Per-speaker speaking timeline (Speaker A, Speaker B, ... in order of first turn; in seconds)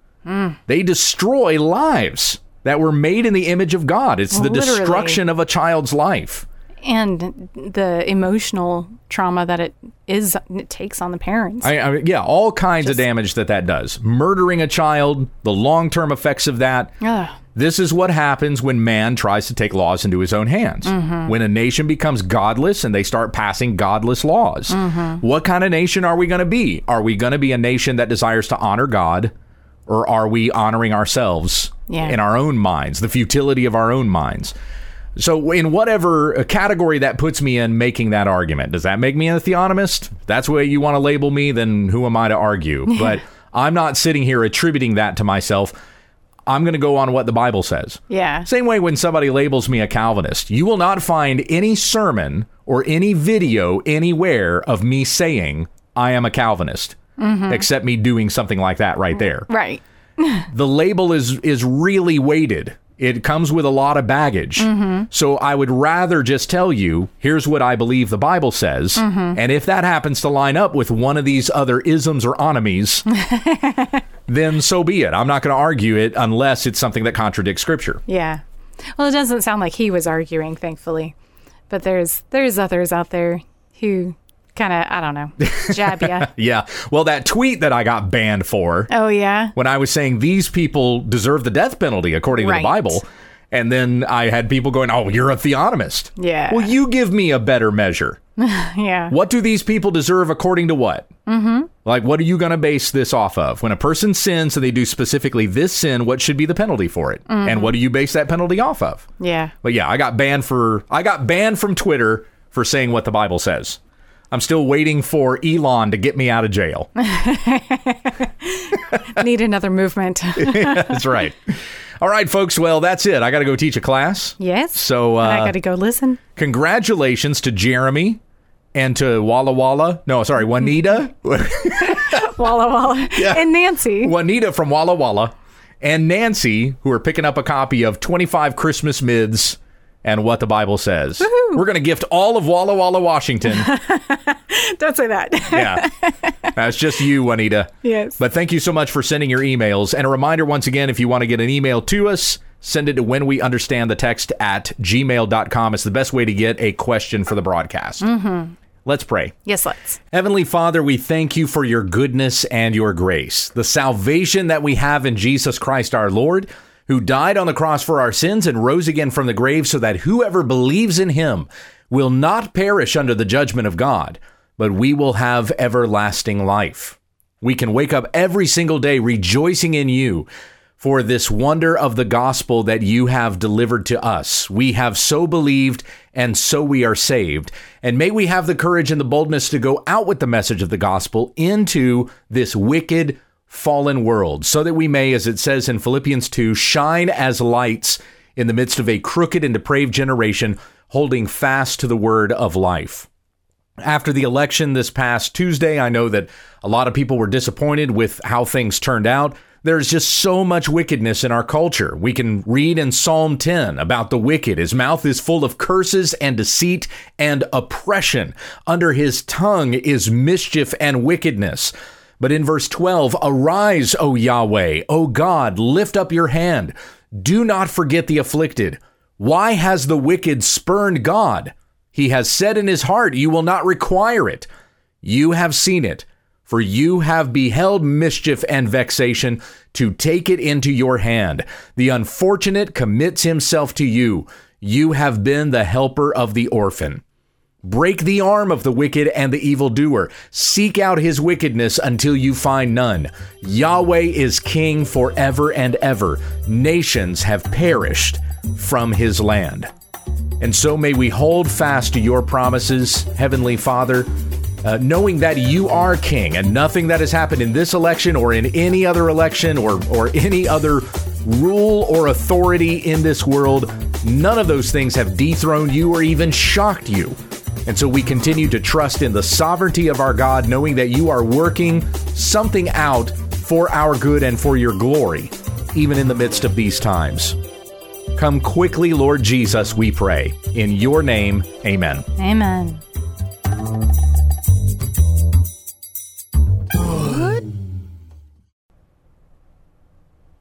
Speaker A: 0.3-0.6, 4.3-5.2, 6.8-11.7, 17.0-17.4, 20.9-21.3, 24.7-25.2, 31.9-32.2, 48.1-48.5, 57.2-57.7, 59.5-60.5, 64.6-65.1, 69.0-69.4, 73.1-74.0, 78.1-81.2, 81.7-86.3, 88.9-89.5, 92.4-93.0, 96.2-96.7, 98.4-99.1, 101.3-101.7, 107.3-107.8, 109.2-109.5, 117.0-121.1, 124.4-126.2, 131.8-134.1, 141.2-141.6, 143.5-146.5, 147.8-148.2, 158.0-158.6, 159.5-160.0, 292.2-292.8, 296.9-297.4
Speaker B: 0.7-6.5, 11.6-16.9, 17.5-29.3, 29.9-34.5, 35.2-45.7, 46.5-59.5, 60.5-73.1, 74.3-78.0, 85.4-88.9, 89.5-98.2, 99.1-101.1, 101.8-109.1, 109.6-113.8, 114.3-116.9, 120.4-125.5, 126.4-128.2, 128.8-132.3, 133.2-133.5, 134.0-143.7, 145.5-145.9, 146.5-158.1, 158.8-159.3, 160.1-180.3, 180.8-203.1, 203.8-234.5, 235.0-247.0, 247.6-259.7, 260.4-264.1, 264.6-287.4, 288.1-292.1